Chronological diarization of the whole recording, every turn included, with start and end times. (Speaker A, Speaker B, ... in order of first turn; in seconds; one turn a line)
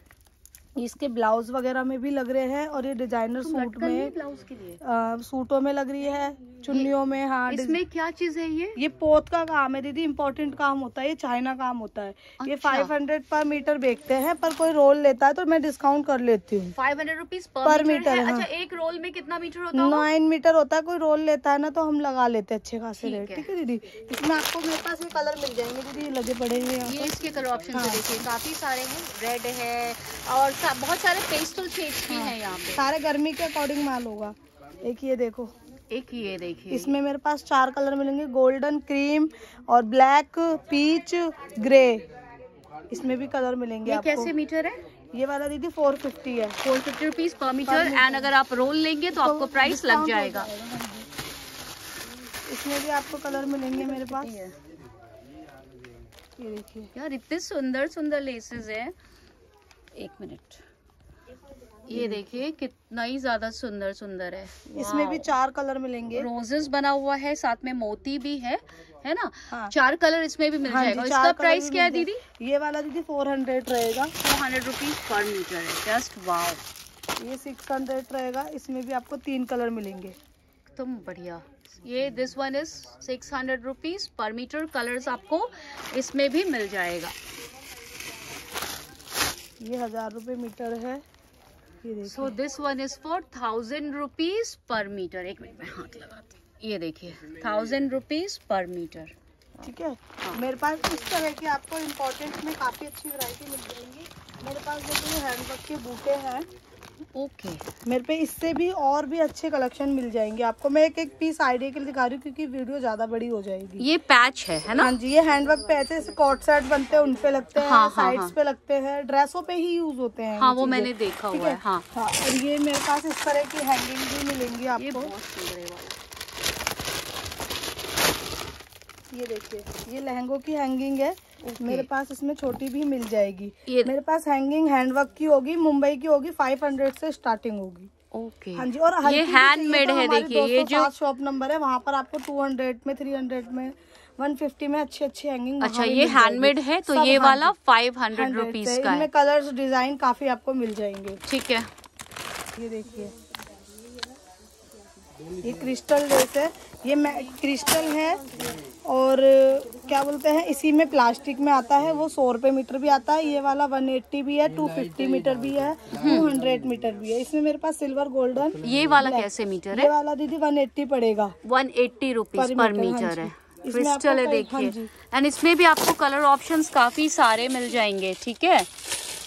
Speaker A: 0.8-4.1
Speaker B: 3.4-4.8
Speaker A: 4.8-7.8
Speaker B: 7.5-8.8
Speaker A: 8.8-16.7
Speaker B: 12.4-12.9
Speaker B: 16.7-20.1
Speaker A: 17.6-18.5
Speaker A: 19.7-27.1
Speaker B: 23.0-23.5
Speaker B: 26.8-32.9
Speaker A: 27.7-28.0
Speaker A: 32.1-35.5
Speaker B: 35.9-37.0
Speaker A: 36.7-42.1
Speaker A: 42.9-44.3
Speaker B: 43.9-44.8
Speaker A: 45.1-46.6
Speaker B: 46.6-50.5
Speaker A: 47.6-48.3
Speaker A: 49.1-51.1
Speaker A: 52.5-54.4
Speaker B: 53.7-54.5
Speaker A: 56.4-56.9
Speaker B: 56.9-58.9
Speaker B: 59.9-60.6
Speaker B: 61.9-65.3
Speaker A: 61.9-62.2
Speaker A: 64.7-66.3
Speaker B: 66.1-72.2
Speaker A: 70.7-74.1
Speaker B: 74.2-76.6
Speaker A: 77.2-80.1
Speaker B: 80.8-87.1
Speaker A: 89.6-91.0
Speaker A: 91.8-92.4
Speaker B: 92.0-99.7
Speaker A: 99.6-106.5
Speaker B: 107.1-107.6
Speaker A: 107.8-113.8
Speaker B: 113.8-115.0
Speaker A: 114.8-125.1
Speaker B: 117.5-118.3
Speaker B: 120.4-121.8
Speaker B: 124.8-126.0
Speaker A: 129.1-137.9
Speaker B: 131.4-131.9
Speaker B: 133.7-133.9
Speaker B: 138.1-140.9
Speaker A: 138.6-147.5
Speaker B: 145.6-149.1
Speaker A: 148.1-151.2
Speaker B: 151.3-151.7
Speaker A: 152.5-153.1
Speaker A: 155.4-158.3
Speaker A: 158.8-171.3
Speaker B: 165.9-166.3
Speaker B: 168.6-169.9
Speaker B: 171.4-178.7
Speaker A: 172.3-174.9